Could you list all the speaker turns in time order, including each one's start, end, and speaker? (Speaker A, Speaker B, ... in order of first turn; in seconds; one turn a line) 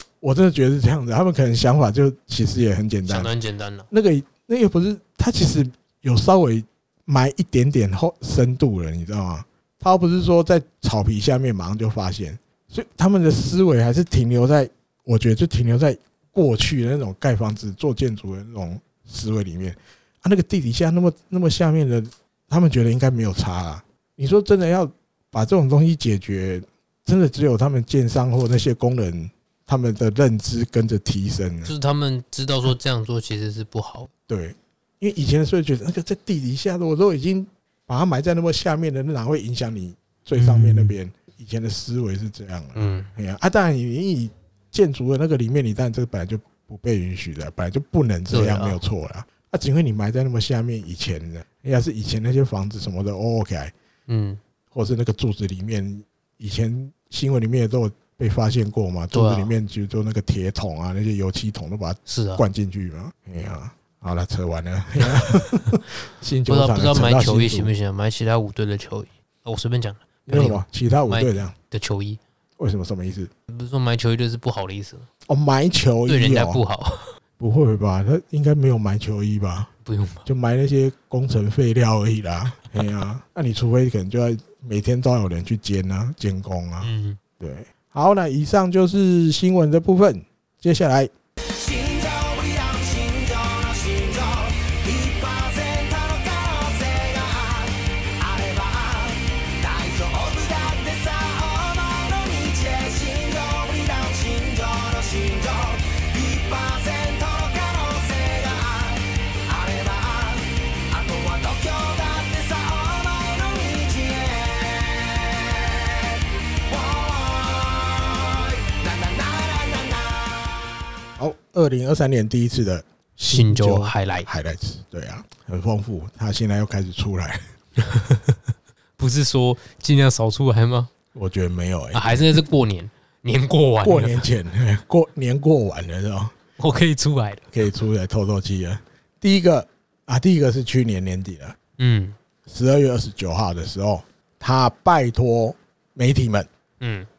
Speaker A: 0.2-3.3
Speaker B: 3.1-3.9
Speaker A: 3.9-31.7
Speaker B: 31.6-34.1
Speaker A: 34.3-53.7
Speaker B: 40.4-40.9
Speaker B: 42.7-43.1
Speaker B: 48.3-48.8
Speaker B: 54.1-54.4
Speaker A: 54.7-67.7
Speaker B: 59.1-59.5
Speaker B: 62.1-62.4
Speaker B: 66.5-72.2
Speaker A: 70.3-71.5
Speaker A: 72.6-73.3
Speaker B: 73.5-75.1
Speaker A: 75.3-76.6
Speaker B: 76.1-77.1
Speaker A: 77.4-79.7
Speaker B: 79.8-80.3
Speaker A: 80.3-91.1
Speaker B: 86.8-87.2
Speaker C: 98.4-98.7
Speaker C: 99.8-100.7
Speaker C: 102.4-108.4
Speaker C: 109.7-110.0
Speaker C: 111.1-112.7
Speaker C: 113.3-113.9
Speaker A: 121.2-127.4
Speaker B: 123.3-124.3
Speaker B: 127.8-128.4
Speaker B: 129.0-130.9
Speaker A: 131.1-132.4
Speaker B: 131.9-134.2
Speaker A: 133.8-136.4
Speaker B: 136.6-137.5
Speaker A: 137.5-141.6
Speaker B: 141.8-142.2
Speaker A: 142.4-146.5
Speaker B: 146.8-147.1